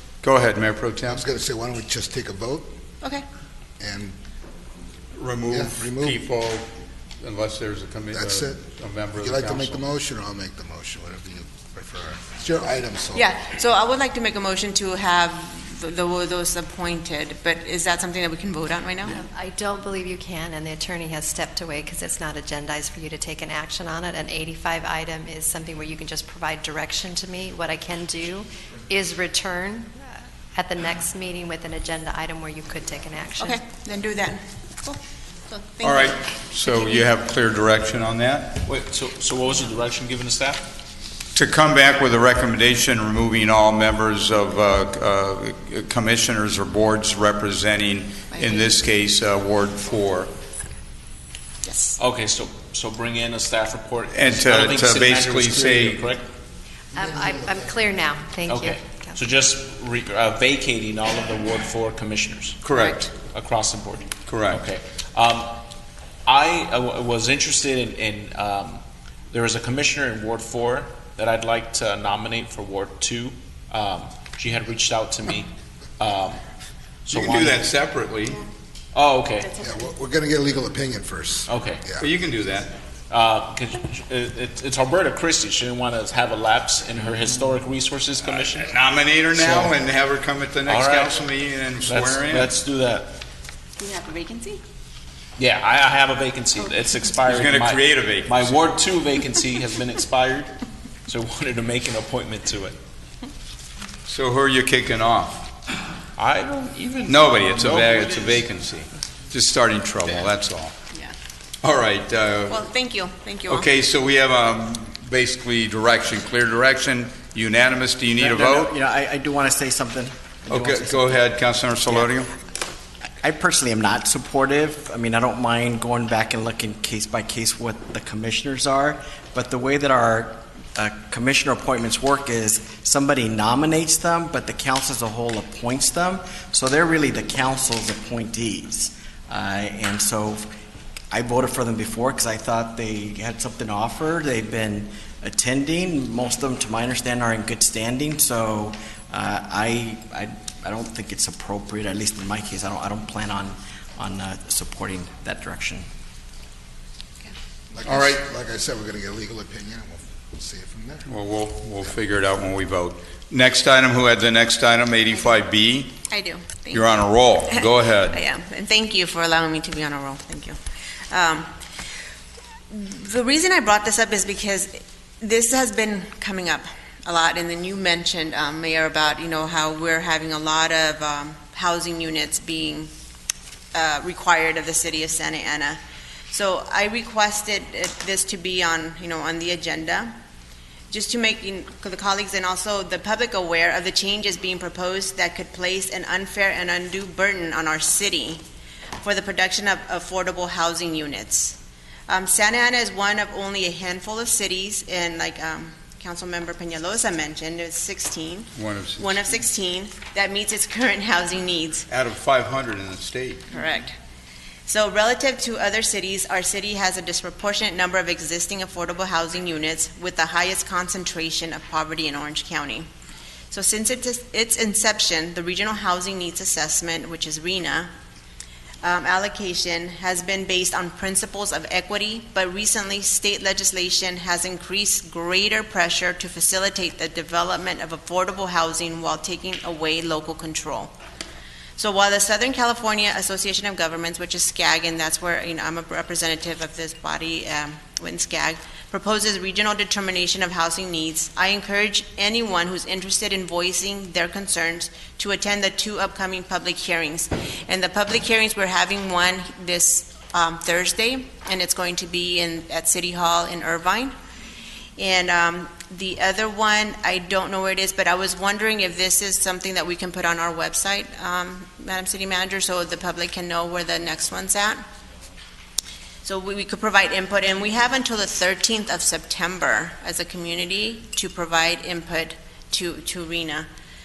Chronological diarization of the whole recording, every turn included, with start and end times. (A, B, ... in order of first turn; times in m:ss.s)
0:00.2-0:01.2 A
0:01.1-0:02.7 B
0:03.8-0:04.2 B
0:05.2-0:09.9 A
0:05.5-0:06.2 B
0:08.1-0:13.3 B
0:13.1-0:19.2 C
0:19.1-0:33.6 D
0:33.4-0:37.1 C
0:35.8-0:38.6 A
0:38.6-0:40.7 E
0:41.4-0:50.3 A
0:48.3-0:48.7 C
0:51.6-0:52.0 C
0:52.0-0:56.3 E
0:54.1-0:56.0 A
0:56.9-0:59.2 D
0:57.0-0:58.0 B
0:58.5-1:05.6 E
1:02.6-1:03.1 A
1:04.3-1:04.6 A
1:06.3-1:16.4 E
1:17.1-1:17.6 E
1:17.1-1:18.4 A
1:18.9-1:19.5 E
1:19.6-1:22.1 B
1:21.5-1:21.9 E
1:22.0-1:22.8 A
1:23.1-1:28.7 E
1:28.6-1:32.5 A
1:29.3-1:29.8 E
1:30.7-1:31.2 E
1:31.8-1:33.2 E
1:33.8-1:34.6 C
1:35.4-1:40.6 E
1:37.3-1:38.6 A
1:41.1-1:42.8 E
1:44.1-1:45.5 A
1:46.2-1:48.5 E
1:47.1-1:50.8 A
1:51.6-1:52.6 A
1:52.5-1:53.7 C
1:53.5-1:58.7 A
1:58.2-2:01.2 F
2:00.5-2:02.3 A
2:03.2-2:20.5 F
2:21.1-2:35.9 F
2:37.7-2:41.1 B
2:37.8-2:38.3 A
2:41.1-2:46.0 A
2:46.1-2:46.9 C
2:46.7-2:48.2 A
2:47.5-2:50.6 C
2:51.1-2:51.5 C
2:52.7-3:02.9 C
3:03.7-3:10.1 C
3:10.9-3:18.4 C
3:19.0-3:31.9 C
3:28.6-3:29.2 A
3:31.9-3:33.5 A
3:33.5-3:34.0 C
3:34.7-3:42.9 C
3:43.5-3:47.9 C
3:48.8-4:01.0 C
4:01.8-4:24.1 C
4:25.0-4:34.8 C
4:36.2-4:43.7 C